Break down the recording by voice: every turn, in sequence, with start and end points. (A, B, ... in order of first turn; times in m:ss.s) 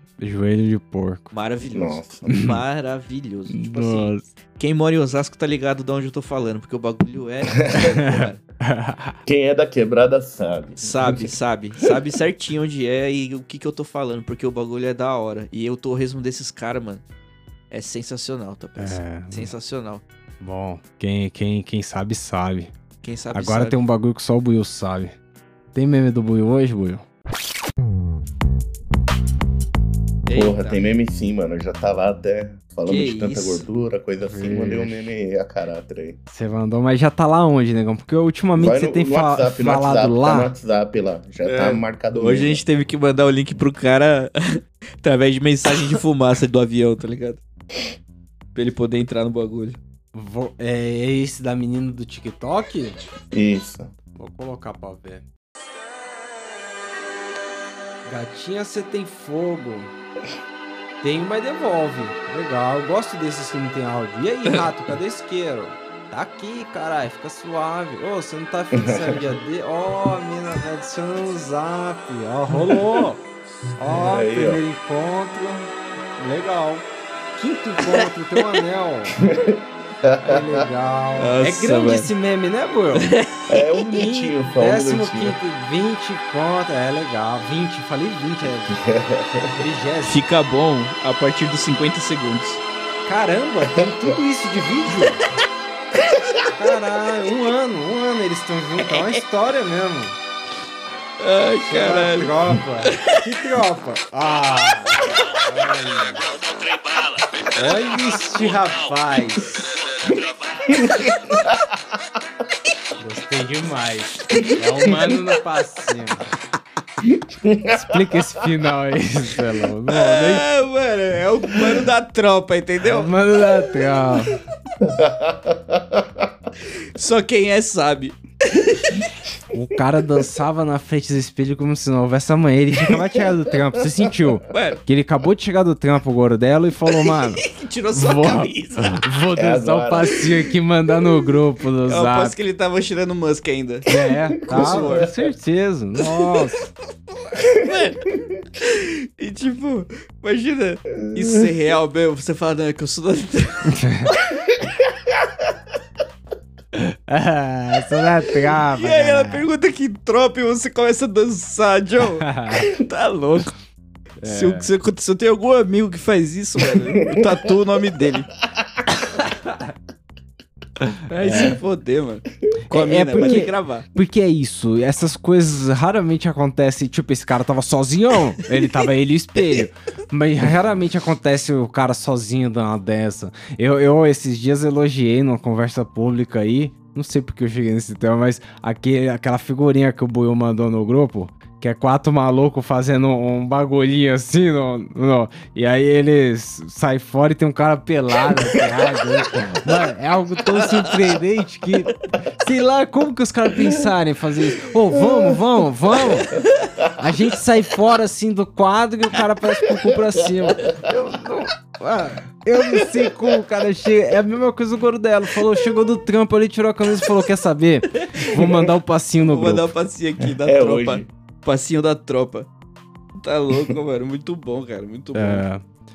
0:00.2-0:01.3 A
0:01.3-0:08.4 B
0:01.6-0:02.5 C
0:02.3-0:02.6 A
0:03.5-0:04.3 A
0:07.7-0:09.2 A
0:09.3-0:11.3 C
0:10.8-0:17.0 B
0:17.7-0:20.0 B
0:18.8-0:19.5 A
0:20.4-0:22.7 A
0:23.0-0:23.8 B
0:23.3-0:25.1 A
0:25.7-0:27.0 A
0:30.3-0:30.8 B
0:30.3-0:36.2 C
0:32.9-0:33.6 B
0:34.3-0:35.1 A
0:36.3-0:40.5 A
0:38.6-0:42.6 C
0:41.4-0:47.4 B
0:48.6-0:49.8 B
0:50.1-0:53.0 A
0:53.3-0:53.9 C
0:54.2-0:55.2 A
0:58.0-0:59.9 A
1:01.0-1:13.2 A
1:08.7-1:09.2 C
1:13.8-1:19.2 A
1:13.9-1:14.6 C
1:17.8-1:18.5 B
1:19.2-1:20.7 C
1:20.2-1:28.8 A
1:21.2-1:22.1 B
1:23.0-1:23.4 B
1:23.5-1:25.4 C
1:28.7-1:29.6 C
1:29.6-1:30.2 A
1:30.1-1:32.6 B
1:33.0-1:35.2 A
1:36.5-1:40.2 A
1:38.9-1:39.2 B
1:41.2-1:42.3 B
1:41.7-1:46.4 A
1:42.8-1:43.2 B
1:47.5-1:49.7 A
1:50.7-1:51.6 C
1:53.0-1:56.3 A
1:54.4-1:55.2 C
1:57.0-1:58.2 C
1:57.7-2:00.5 A
1:59.9-2:03.1 B
2:02.8-2:04.4 A
2:04.8-2:06.3 C
2:06.7-2:09.1 B
2:09.5-2:22.4 A
2:12.9-2:13.2 C
2:14.5-2:14.8 B
2:17.1-2:19.0 B
2:19.3-2:20.4 C
2:21.8-2:25.1 B
2:23.9-2:26.7 A
2:24.5-2:25.2 C
2:26.0-2:26.3 B
2:27.1-2:34.4 B
2:31.1-2:31.4 C
2:33.7-2:34.1 A
2:36.7-2:39.5 A
2:38.7-2:43.5 B
2:42.2-2:42.7 A
2:44.2-2:44.7 A
2:44.2-2:48.3 B
2:47.0-2:47.3 C
2:49.3-2:49.7 A
2:50.8-2:51.6 A
2:51.1-2:53.9 B
2:52.7-3:26.4 A
2:53.2-2:53.4 C
3:25.1-3:25.4 C
3:27.0-3:39.6 A
3:38.2-3:38.7 C
3:39.2-3:42.5 B
3:40.2-3:41.1 C
3:43.2-3:45.4 B
3:45.1-3:45.6 A